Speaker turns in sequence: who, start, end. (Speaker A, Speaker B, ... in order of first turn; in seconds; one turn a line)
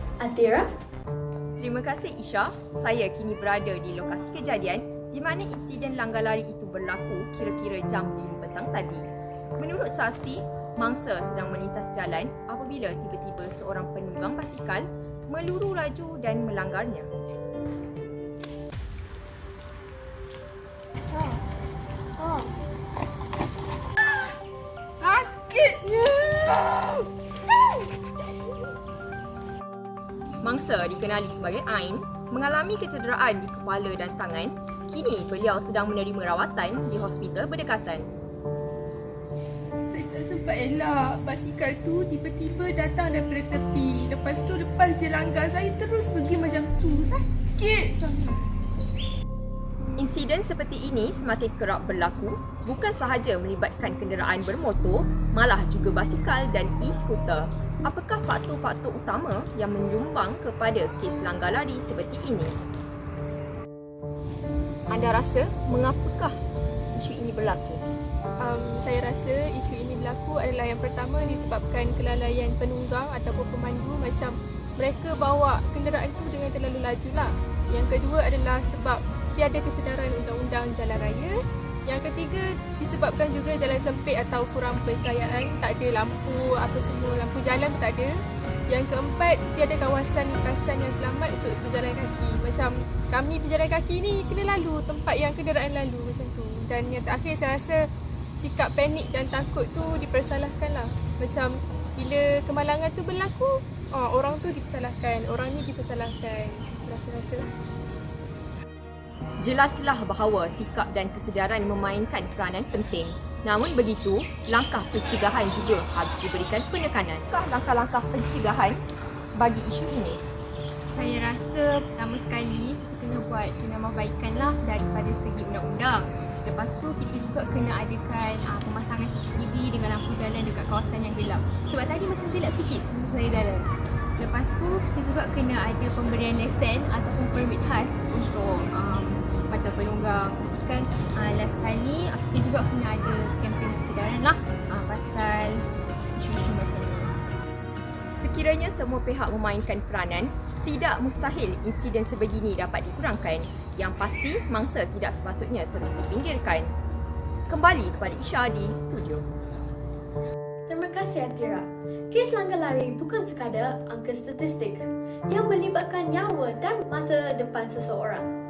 Speaker A: 0.2-0.7
Speaker B: 1.6-9.1
Speaker B: 9.6-17.1
Speaker C: 21.1-21.4
Speaker C: 22.2-22.5
Speaker C: 24.0-24.4
Speaker C: 25.0-27.0
Speaker B: 30.4-38.1
Speaker C: 39.9-48.4
Speaker B: 50.0-62.6
Speaker B: 64.9-66.4
Speaker B: 66.9-67.8
Speaker C: 68.4-81.3
Speaker C: 81.9-88.2
Speaker C: 88.7-97.8
Speaker C: 98.4-107.5
Speaker B: 109.4-118.8
Speaker B: 119.3-120.2
Speaker D: 120.9-147.1
Speaker B: 148.2-156.7
Speaker B: 157.5-159.3
Speaker A: 160.7-168.3